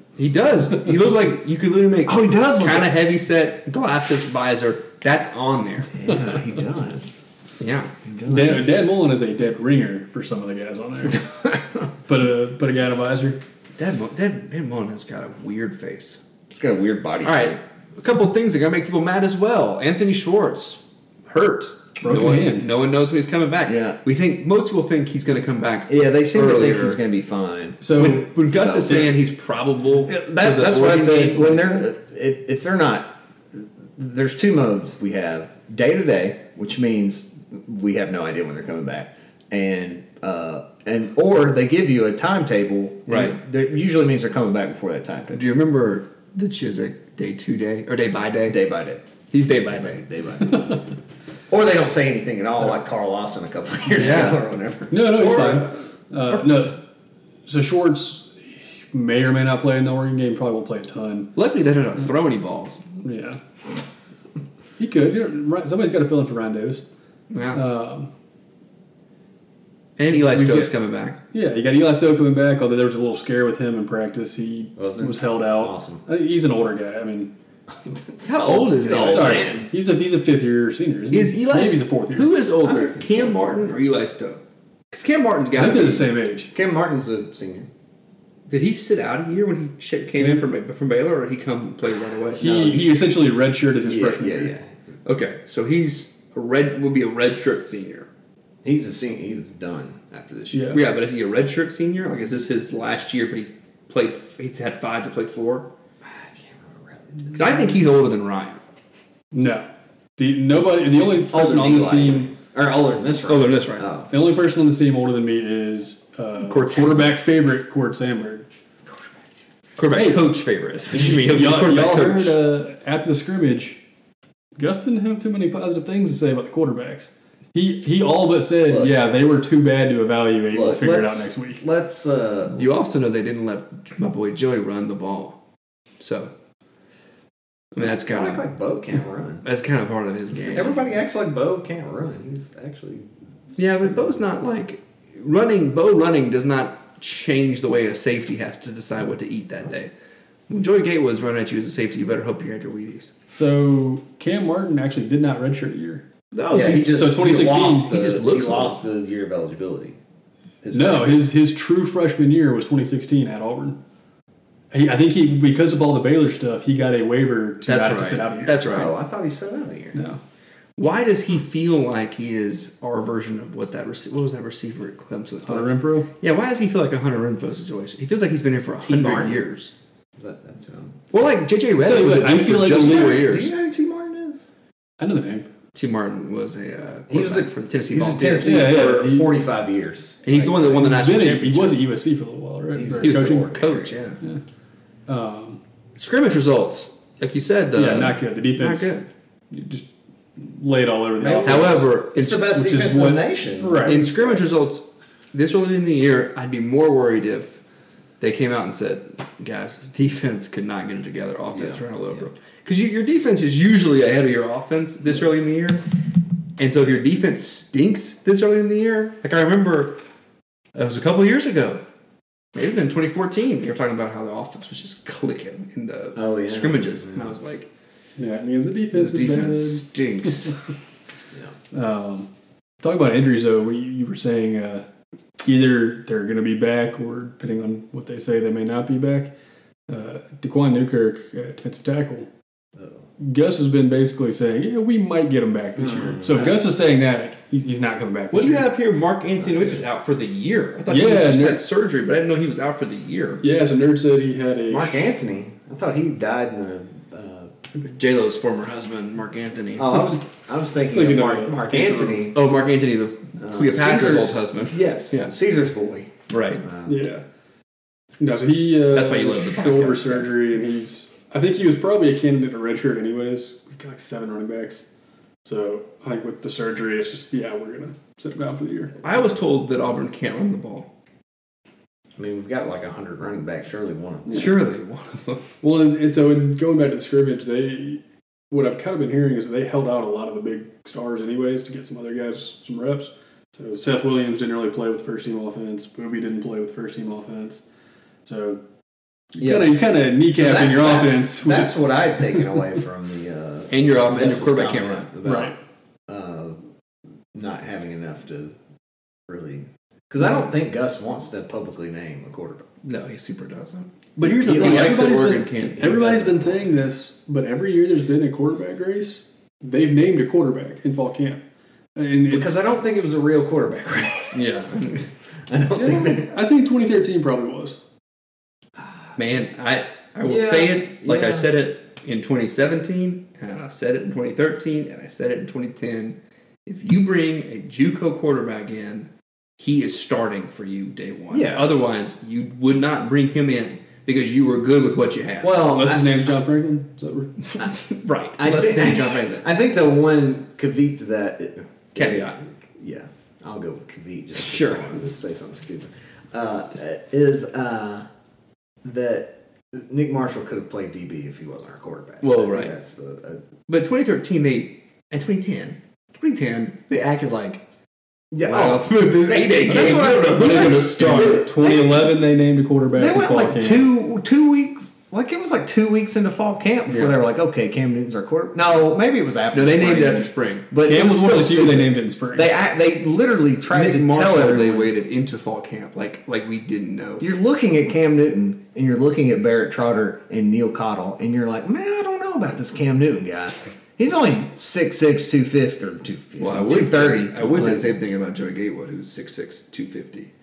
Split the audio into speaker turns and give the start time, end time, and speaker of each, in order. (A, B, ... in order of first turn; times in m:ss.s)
0:00.2-0:06.3 A
0:02.1-0:03.0 B
0:05.9-0:07.2 B
0:07.6-0:07.9 A
0:08.0-0:08.8 B
0:08.3-0:11.3 C
0:12.1-0:13.4 C
0:13.8-0:16.2 A
0:16.5-0:17.6 B
0:17.2-0:27.0 A
0:22.0-0:22.7 C
0:23.6-0:24.0 B
0:25.9-0:29.2 B
0:27.8-0:28.3 C
0:27.9-0:31.9 A
0:30.0-0:45.4 B
0:43.1-0:43.4 A
0:45.3-0:48.7 A
0:48.5-0:49.0 B
0:49.3-0:50.1 A
0:49.7-0:50.8 B
0:51.5-0:55.2 B
0:54.0-0:54.4 A
0:54.0-0:54.3 C
0:54.9-0:56.8 C
0:54.9-0:56.6 A
0:57.5-1:01.3 C
1:01.4-1:02.8 A
1:03.0-1:03.4 C
1:04.8-1:06.8 C
1:07.3-1:07.6 A
1:07.5-1:08.1 C
1:10.0-1:11.2 A
1:10.1-1:10.7 C
1:11.3-1:17.3 C
1:14.8-1:16.0 B
1:17.9-1:19.7 B
1:18.2-1:19.5 A
1:18.9-1:22.3 C
1:21.1-1:24.4 A
1:22.6-1:23.8 B
1:24.9-1:26.1 A
1:25.6-1:26.5 C
1:26.5-1:27.7 B
1:28.5-1:32.9 A
1:30.2-1:30.5 C
1:32.4-1:34.5 C
1:33.8-1:34.7 B
1:35.0-1:38.1 A
1:38.6-1:40.8 B
1:40.5-1:40.8 C
1:40.7-1:45.7 A
1:46.0-1:47.8 B
1:47.3-1:48.6 A
1:49.3-1:52.3 C
1:51.2-1:54.1 B
1:53.3-1:53.9 A
1:54.1-1:58.5 C
1:56.4-1:57.2 A
1:58.9-1:59.2 B
1:59.8-2:02.4 A
1:59.9-2:00.3 C
2:00.9-2:03.8 C
2:04.6-2:11.6 C
2:08.7-2:09.0 B
2:10.5-2:12.7 B
2:12.5-2:15.4 A
2:16.0-2:16.3 A
2:17.8-2:18.5 A
2:17.8-2:19.5 B
2:19.4-2:20.9 A
2:20.4-2:23.1 B
2:23.6-2:29.9 A
2:23.8-2:24.2 B
2:30.5-2:33.1 A
2:33.3-2:37.9 C
2:36.3-2:38.8 A
2:36.5-2:40.0 B
2:40.6-2:41.3 B
2:40.7-2:43.8 C
2:44.7-2:48.7 C
2:47.7-2:48.9 A
2:48.6-2:50.0 B
2:50.0-2:50.2 C
2:50.8-2:59.7 A
2:55.5-2:56.1 C
2:58.8-2:59.5 B
3:00.2-3:01.0 B
3:01.1-3:03.5 A
3:01.8-3:03.3 C
3:02.5-3:04.5 B
3:05.0-3:05.5 C
3:05.7-3:08.7 A
3:07.1-3:10.2 B
3:08.4-3:09.3 C
3:10.2-3:11.8 A
3:10.3-3:13.5 C
3:12.7-3:14.2 B
3:13.0-3:14.2 A
3:15.1-3:15.6 C
3:16.0-3:19.1 A
3:17.7-3:19.0 C
3:19.5-3:24.1 C
3:21.2-3:24.4 B
3:21.4-3:22.5 A
3:23.9-3:27.6 A
3:28.2-3:35.8 A
3:31.5-3:32.2 B
3:36.6-3:40.0 A
3:40.8-3:41.8 A
3:42.5-3:47.7 A
3:46.2-3:47.4 B
3:48.2-3:50.5 C
3:48.9-3:50.6 A
3:51.7-3:52.3 C
3:52.8-3:54.9 C
3:55.4-3:59.3 C
3:59.9-4:02.3 C
4:02.8-4:03.0 B
4:03.2-4:08.7 C
4:05.8-4:07.0 B
4:08.3-4:13.4 A
4:09.4-4:09.9 B
4:10.9-4:11.6 C
4:13.4-4:15.1 C
4:14.7-4:17.5 B
4:17.8-4:20.0 A
4:19.8-4:22.4 B
4:20.8-4:22.3 C
4:22.3-4:25.3 A
4:23.4-4:27.0 B
4:26.3-4:26.6 A
4:26.9-4:27.2 C
4:28.2-4:34.8 C
4:28.9-4:30.4 A
4:35.4-4:38.9 C
4:39.0-4:40.9 A
4:42.2-4:44.5 B
4:44.3-4:45.5 A
4:45.6-4:57.6 C
4:58.2-4:58.6 C
4:59.3-5:02.1 C
4:59.4-5:05.6 B
5:03.7-5:05.1 A
5:05.2-5:05.6 C
5:06.1-5:06.6 B
5:07.3-5:08.6 B
5:09.3-5:12.7 B
5:12.8-5:16.1 A
5:14.2-5:21.4 C
5:14.2-5:16.7 B
5:22.0-5:22.6 C
5:22.3-5:24.8 B
5:24.3-5:25.1 A
5:25.5-5:26.3 B
5:25.8-5:27.8 C
5:28.8-5:29.1 B
5:29.2-5:45.8 A
5:30.2-5:31.5 B
5:41.3-5:41.7 B
5:45.4-5:46.4 B
5:45.5-5:47.4 C
5:47.8-5:49.5 A
5:48.4-5:58.1 B
5:52.0-5:52.4 A
5:54.5-5:54.9 A
5:58.8-6:03.4 B
6:02.2-6:02.7 A
6:03.7-6:07.6 A
6:08.3-6:12.2 B
6:08.4-6:11.6 A
6:10.2-6:13.9 C
6:12.9-6:24.9 B
6:19.5-6:20.7 A
6:20.8-6:22.5 C
6:23.7-6:27.3 A
6:27.2-6:38.0 B
6:36.4-6:40.3 A